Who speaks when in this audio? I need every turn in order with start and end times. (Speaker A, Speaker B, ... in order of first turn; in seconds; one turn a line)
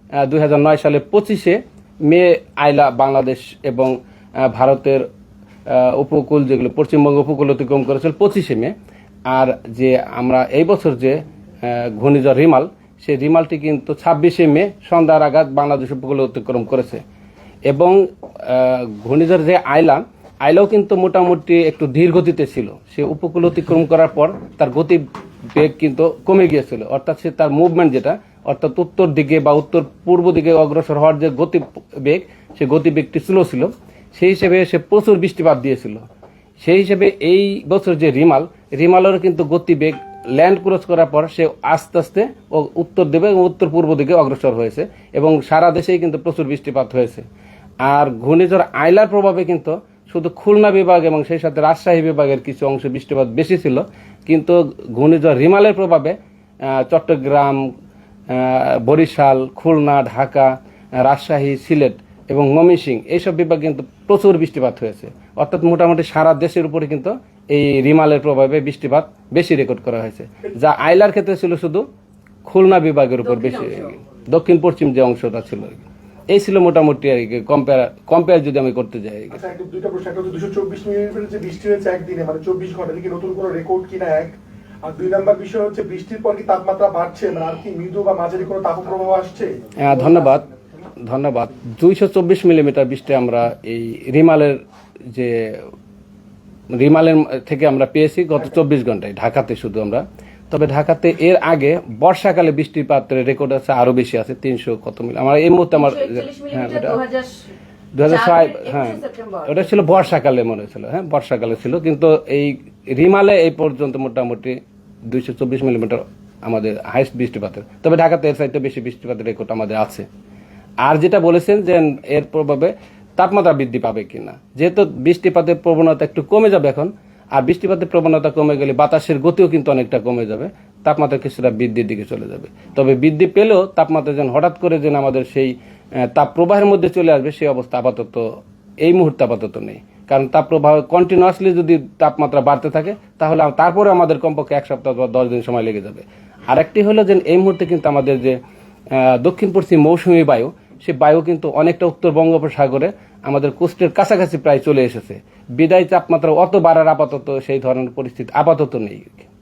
Speaker A: 0.2-5.1
Speaker A: 5.7-8.8
Speaker A: 9.3-17.0
Speaker A: 17.7-36.0
Speaker A: 36.6-47.3
Speaker A: 47.8-57.6
Speaker A: 58.3-71.9
Speaker A: 72.5-79.4
Speaker B: 73.2-73.9
Speaker C: 79.3-89.6
Speaker A: 89.8-90.5
Speaker A: 91.0-94.6
Speaker A: 95.1-95.7
Speaker A: 96.7-107.0
Speaker B: 105.7-107.5
Speaker A: 108.0-120.1
Speaker B: 108.0-109.7
Speaker A: 120.8-148.4
Speaker A: 148.9-159.3